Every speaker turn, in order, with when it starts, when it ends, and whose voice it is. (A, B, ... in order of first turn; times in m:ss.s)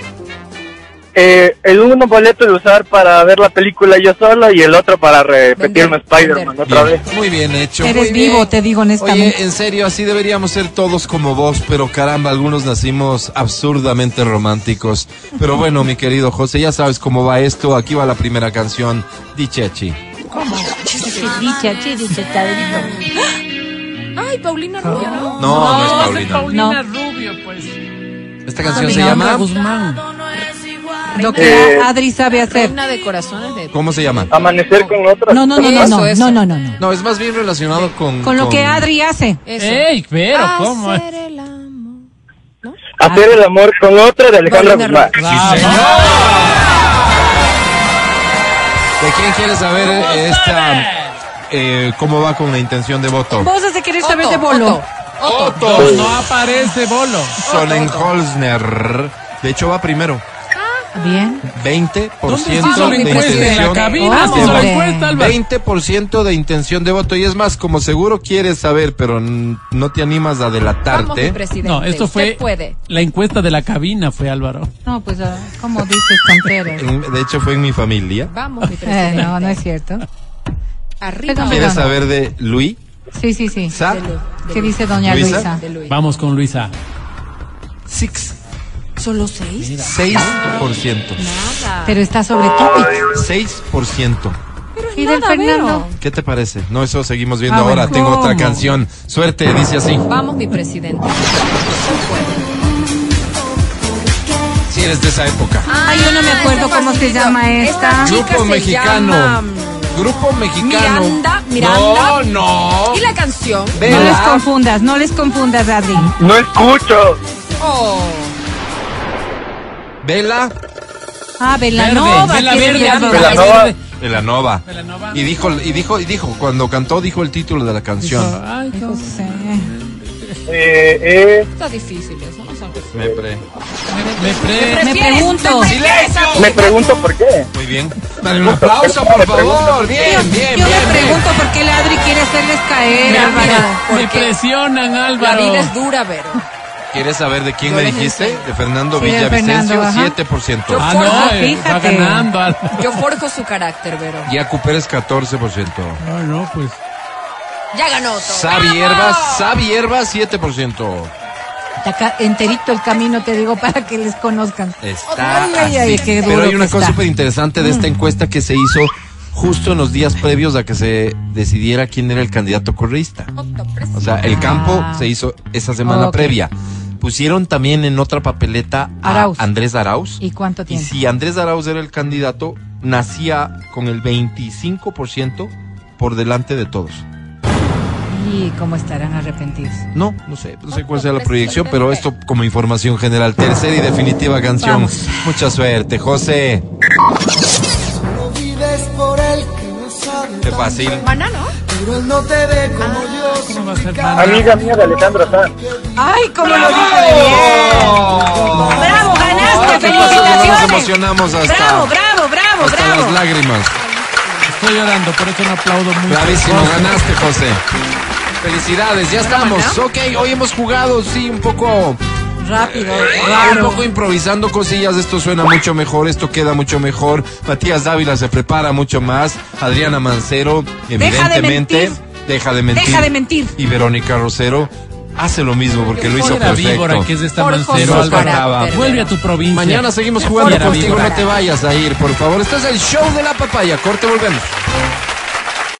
0:01.1-0:07.0 A
0:05.6-0:06.6 B
0:06.6-0:20.0 C
0:07.8-0:09.3 D
0:20.3-0:20.8 E
0:21.0-0:23.0 D
0:24.2-0:25.4 B
0:25.0-0:26.8 D
0:25.4-0:26.5 C
0:25.5-0:27.8 E
0:28.4-0:29.5 C
0:28.7-0:30.0 E
0:28.8-0:29.4 D
0:31.1-0:36.4 B
0:31.2-0:32.8 D
0:31.4-0:31.8 A
0:33.7-0:34.3 C
0:34.3-0:35.8 A
0:35.3-0:36.8 D
0:36.8-0:38.9 C
0:38.2-0:39.4 D
0:39.4-0:42.1 B
0:39.6-0:41.0 E
0:42.6-0:43.2 B
0:42.9-0:45.2 A
0:44.4-0:45.8 B
0:45.2-0:45.8 E
0:45.2-0:46.6 C
0:49.0-0:50.9 C
0:50.1-0:50.9 E
0:51.5-0:53.5 C
0:53.4-0:54.8 D
0:54.0-0:56.0 B
0:55.2-0:56.2 C
0:55.6-0:57.4 E
0:57.4-1:00.2 C
0:57.4-0:58.1 B
1:00.6-1:00.9 B
1:00.9-1:01.4 D
1:01.5-1:11.4 C
1:02.3-1:05.4 E
1:02.5-1:04.6 B
1:04.0-1:05.2 D
1:10.9-1:12.8 B
1:11.6-1:14.7 E
1:14.8-1:16.9 D
1:16.7-1:18.3 C
1:18.3-1:19.6 B
1:18.8-1:20.0 D
1:21.0-1:21.9 B
1:21.3-1:21.9 D
1:21.4-1:22.8 C
1:23.1-1:23.7 D
1:23.7-1:24.0 C
1:23.7-1:26.0 B
1:24.5-1:25.6 D
1:25.0-1:25.5 C
1:25.8-1:26.7 E
1:27.9-1:28.4 C
1:29.0-1:30.5 B
1:29.6-1:29.9 E
1:29.8-1:31.2 C
1:31.2-1:32.0 B
1:31.8-1:33.0 D
1:33.1-1:34.4 C
1:34.8-1:36.0 B
1:35.0-1:35.9 D
1:36.0-1:40.0 C
1:37.5-1:38.5 D
1:40.0-1:42.5 B
1:44.7-1:45.7 C
1:45.6-1:53.8 B
1:45.8-1:48.1 D
1:48.0-1:49.4 C
1:49.9-1:53.1 C
1:53.7-1:54.5 C
1:53.8-1:56.1 D
1:56.2-1:57.2 A
1:57.6-1:58.3 B
2:00.0-2:00.5 C
2:01.4-2:03.5 D
2:01.7-2:03.8 E
2:02.0-2:03.6 B
2:04.0-2:08.4 C
2:04.6-2:05.4 E
2:08.0-2:10.4 E
2:08.7-2:09.7 D
2:10.5-2:11.4 A
2:11.5-2:12.9 B
2:12.9-2:13.4 C
2:13.9-2:15.0 E
2:13.9-2:17.0 B
2:14.8-2:15.7 D
2:15.6-2:16.7 C
2:16.4-2:17.5 A
2:17.5-2:21.2 C
2:18.8-2:19.6 A
2:20.0-2:23.8 D
2:23.0-2:24.4 B
2:23.0-2:25.7 E
2:25.2-2:26.4 B
2:26.9-2:30.9 C
2:27.6-2:28.5 B
2:28.9-2:30.1 D
2:30.7-2:31.4 B
2:30.8-2:33.0 E
2:31.0-2:32.3 D
2:32.7-2:34.3 B
2:34.2-2:36.0 C
2:36.0-2:36.8 E
2:37.7-2:39.6 B
2:38.2-2:41.1 C
2:41.8-2:44.8 D
2:44.8-2:53.3 C
2:45.1-2:46.5 B
2:45.3-2:47.0 D
2:47.6-2:47.9 D
2:53.4-2:54.4 B
2:53.9-3:07.0 C
2:54.2-2:55.1 D
2:55.8-2:56.4 D
2:59.0-2:59.5 D
3:00.2-3:00.9 D
3:08.1-3:09.8 D
3:09.9-3:16.6 C
3:10.7-3:12.0 B
3:14.6-3:14.9 D
3:18.1-3:20.9 F
3:20.4-3:21.1 C
3:21.0-3:21.5 B
3:21.7-3:25.2 F
3:22.8-3:23.4 B
3:23.4-3:24.7 E
3:24.2-3:25.5 A
3:26.0-3:28.0 D
3:26.4-3:31.9 C
3:28.6-3:33.2 D
3:30.4-3:30.8 B
3:32.6-3:33.7 C
3:33.7-3:34.7 B
3:34.4-3:37.2 E
3:36.0-3:37.6 C
3:38.4-3:42.0 C
3:39.2-3:39.8 B
3:42.4-3:43.8 D
3:42.6-3:57.1 C
3:51.0-3:52.0 D
3:52.7-3:53.5 D
3:55.9-3:56.5 B
3:56.1-3:59.8 E
3:57.4-3:59.1 B
3:57.7-3:58.9 C
3:59.5-4:04.6 C
4:00.0-4:01.4 B
4:00.4-4:01.2 E